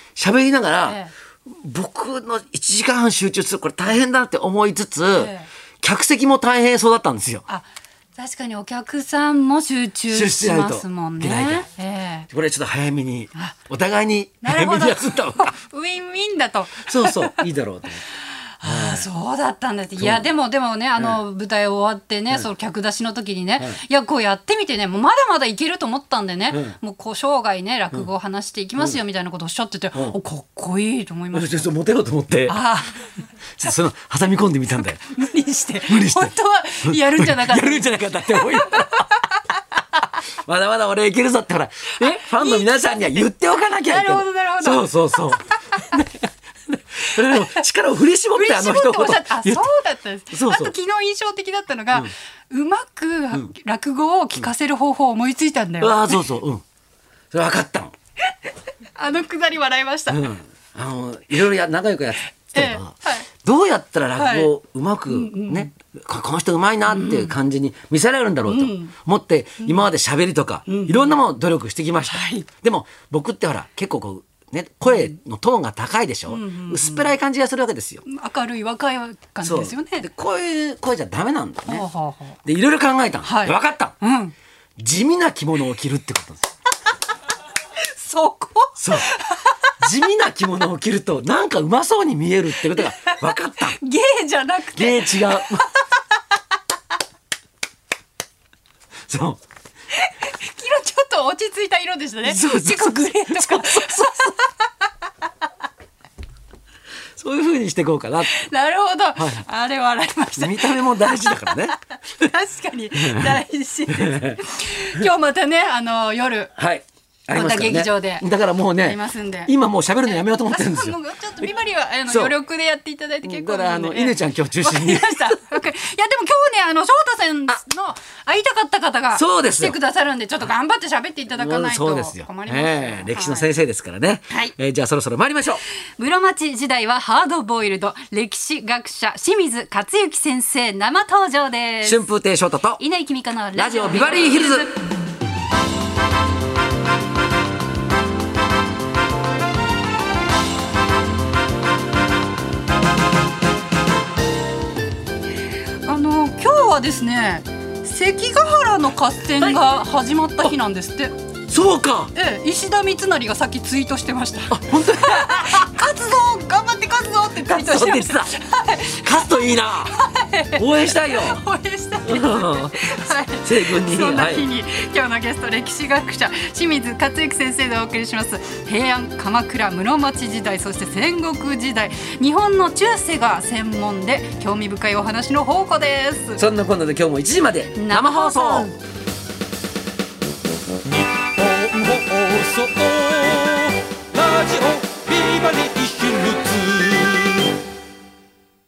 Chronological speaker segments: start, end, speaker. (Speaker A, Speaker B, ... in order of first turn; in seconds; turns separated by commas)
Speaker A: 0.2-7.5, Speaker B: 0.9-1.1, Speaker B: 5.2-5.5, Speaker B: 7.5-12.3, Speaker A: 10.1-11.7, Speaker A: 12.3-15.5, Speaker B: 14.4-17.5, Speaker A: 16.8-18.0, Speaker B: 18.6-31.7, Speaker A: 18.6-19.1, Speaker A: 20.0-20.3, Speaker A: 26.5-26.8, Speaker A: 31.3-32.6, Speaker B: 32.5-33.1, Speaker A: 33.6-35.0, Speaker B: 35.0-39.1, Speaker A: 35.9-39.1, Speaker A: 40.4-49.6, Speaker B: 42.0-43.3, Speaker B: 43.9-45.8, Speaker B: 47.1-47.6, Speaker B: 48.3-56.2, Speaker A: 50.3-50.7, Speaker A: 55.8-56.6, Speaker A: 57.3-57.9, Speaker B: 59.0-60.2, Speaker A: 60.1-78.0, Speaker B: 62.4-63.3, Speaker B: 64.2-64.5, Speaker B: 65.1-65.7, Speaker B: 66.9-67.3, Speaker B: 68.5-68.9, Speaker B: 69.6-69.9, Speaker B: 70.7-71.2, Speaker B: 72.0-72.5, Speaker B: 76.3-77.1, Speaker B: 78.0-80.1, Speaker A: 79.4-81.9, Speaker B: 81.7-82.4, Speaker A: 82.4-84.0, Speaker B: 83.2-84.3, Speaker A: 84.8-86.5, Speaker B: 87.8-89.6, Speaker A: 88.8-89.1, Speaker A: 89.8-93.8, Speaker B: 92.7-95.7, Speaker A: 94.7-95.7, Speaker A: 99.1-99.4, Speaker B: 99.9-104.7, Speaker A: 102.2-104.3, Speaker A: 107.2-108.4, Speaker B: 108.3-116.5, Speaker A: 109.2-109.5, Speaker A: 110.4-112.3, Speaker A: 113.0-114.4, Speaker A: 116.6-121.0, Speaker B: 117.3-118.3, Speaker B: 118.8-119.5, Speaker B: 120.2-133.5, Speaker A: 122.1-122.3, Speaker A: 123.2-125.5, Speaker A: 129.1-129.8, Speaker A: 131.3-135.6, Speaker B: 136.0-142.0, Speaker A: 141.8-142.8, Speaker B: 142.8-144.8, Speaker A: 143.6-144.8, Speaker B: 155.8-161.2, Speaker A: 161.5-162.1, Speaker B: 162.2-186.4, Speaker A: 164.5-165.8, Speaker A: 167.4-168.4, Speaker A: 168.9-169.9, Speaker A: 170.5-171.4, Speaker A: 172.0-172.9, Speaker A: 173.4-174.5, Speaker A: 186.4-188.7, Speaker B: 187.8-188.8, Speaker C: 191.4-197.2